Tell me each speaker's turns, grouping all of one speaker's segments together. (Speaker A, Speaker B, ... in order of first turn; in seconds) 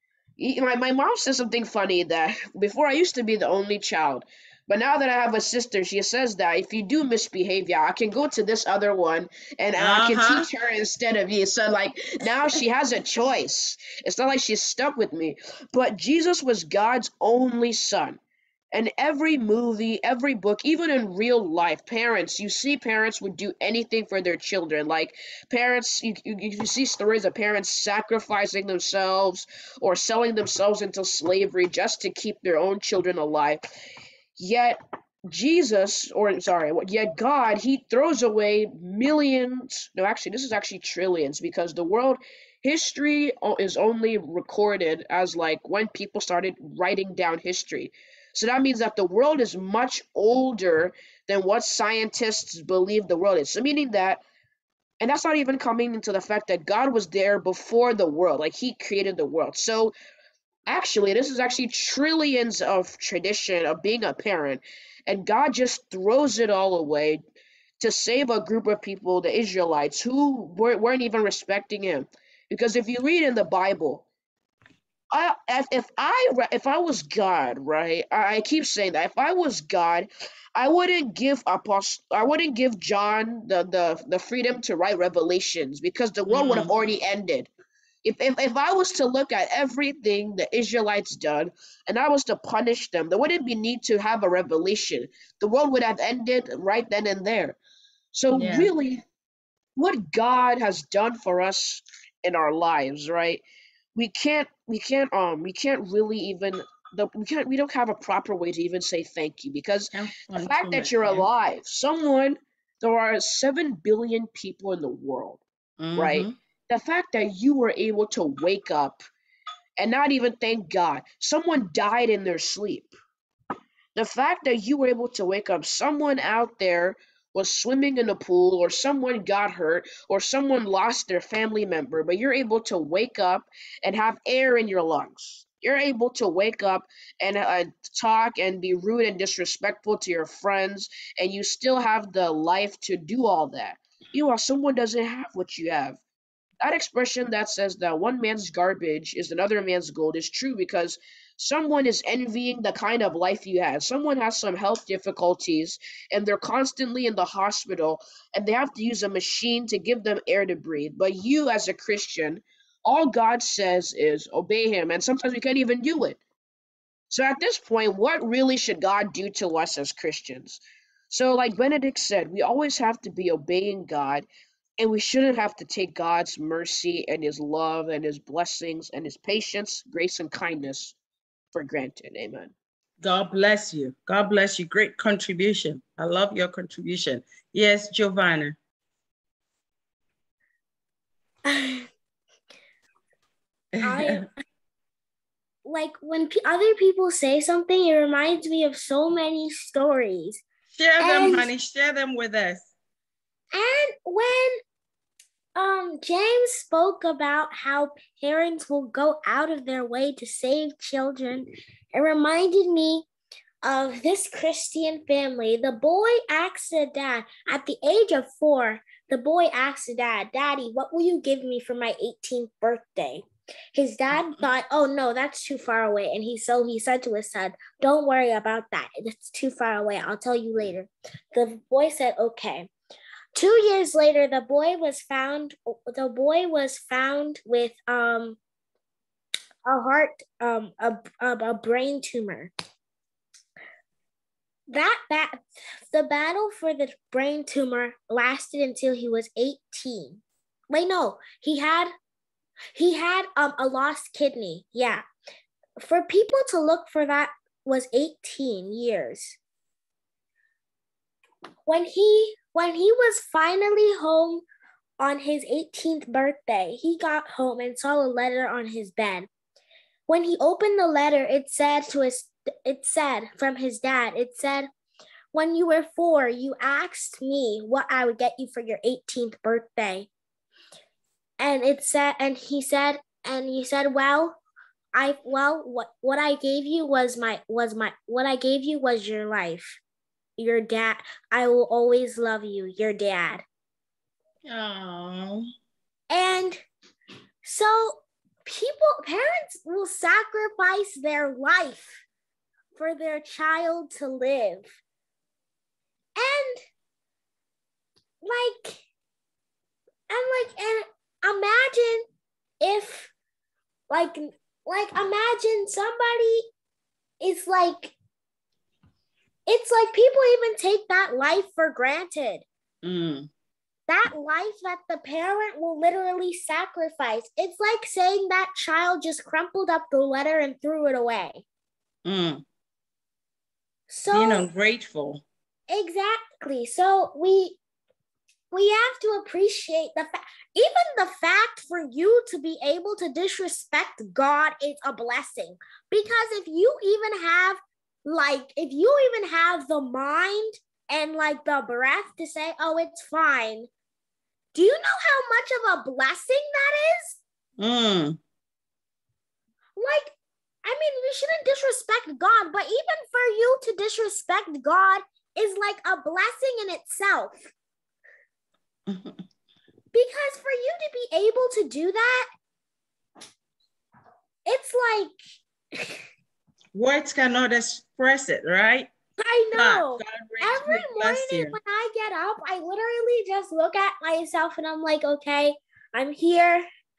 Speaker A: 0.4-18.2, 18.7-33.6, 34.4-54.2, 55.0-59.9, 60.7-67.2, 67.8-74.0, 75.1-87.5, 88.0-97.6, 98.1-99.0, 99.8-103.4, 104.0-115.4, 116.0-119.0, 119.8-123.0, 124.0-146.0, 146.6-166.2, 167.1-174.3, 174.8-181.0, 181.5-182.5
Speaker B: 9.8-10.5, 86.3-86.7, 98.3-98.7, 109.9-111.3, 115.8-116.3, 183.0-188.6, 193.8-194.3, 200.8-202.7, 294.5-295.4, 322.8-323.3, 332.1-332.4, 334.1-335.2, 357.6-358.2, 368.9-369.1, 376.8-378.9, 379.5-381.6
Speaker C: 191.5-191.9, 193.8-194.3, 195.7-200.4, 201.0-201.5, 203.5-204.6, 205.6-213.1, 213.6-232.7, 233.3-238.4, 239.7-242.5, 244.7-251.9, 252.7-255.0, 255.8-259.4, 261.7-264.4, 265.0-269.3, 270.1-274.7, 275.3-280.1, 281.4-284.4, 284.9-289.8, 290.4-293.4, 296.1-296.6, 297.4-302.0, 302.8-304.7, 306.2-306.6, 308.2-308.8, 310.1-312.1, 312.6-313.1, 313.9-316.4, 317.2-317.9, 319.5-322.4, 323.9-331.4, 333.9-334.5, 335.7-337.6, 338.5-353.7, 354.5-357.2, 359.8-360.1, 360.6-367.5, 369.9-372.3, 374.5-375.2, 375.8-376.0, 379.2-386.7